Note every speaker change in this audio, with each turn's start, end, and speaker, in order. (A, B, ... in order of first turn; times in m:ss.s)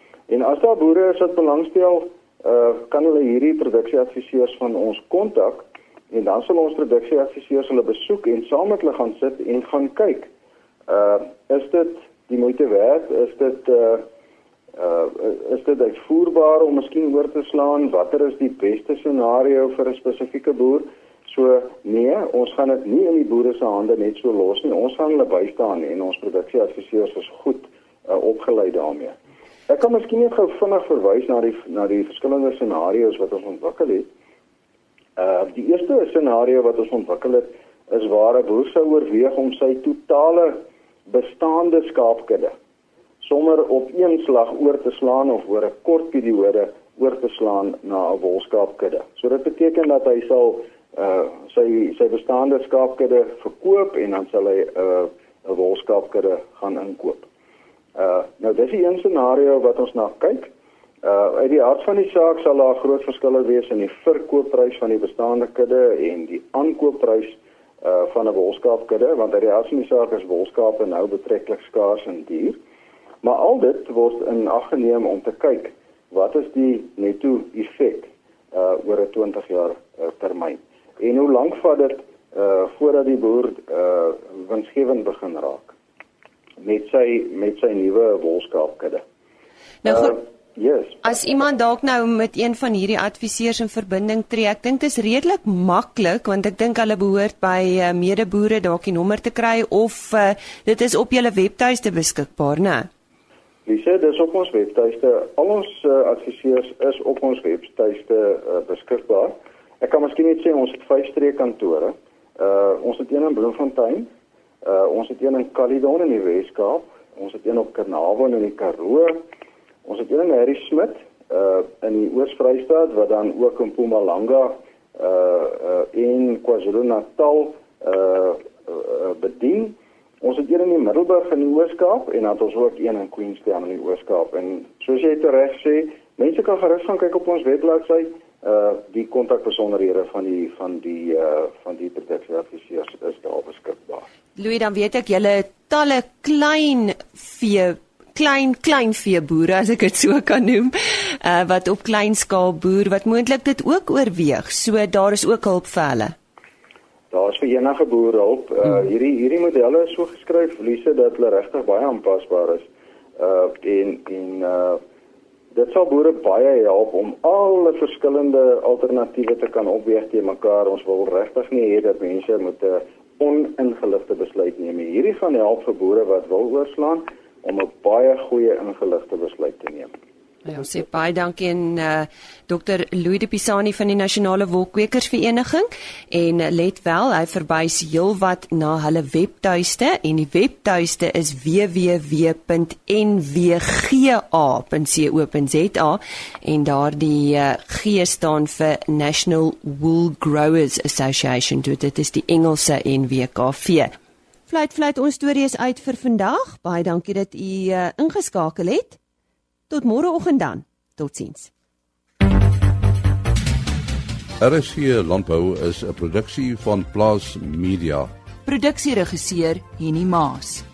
0:00.3-0:10.3 A
0:10.9-0:14.1 A
0:14.8-0:29.2 A
0:29.7-0:34.1 A
0:35.2-0:42.6 A
0:43.2-0:57.3 A
0:58.0-1:12.6 A
1:13.2-1:25.8 A
1:26.6-1:29.0 A
1:29.8-1:30.2 B
1:29.9-1:31.0 A
1:31.0-1:42.9 B
1:43.7-1:54.1 A
1:54.6-1:59.2 A
1:59.8-2:24.0 A
2:24.4-2:36.2 B
2:37.1-2:44.8 A
2:45.5-2:59.9 A
3:00.5-3:23.9 B
3:24.5-3:29.0 B
3:29.7-3:31.5 B
3:34.4-3:38.1 C
3:38.4-3:40.6 D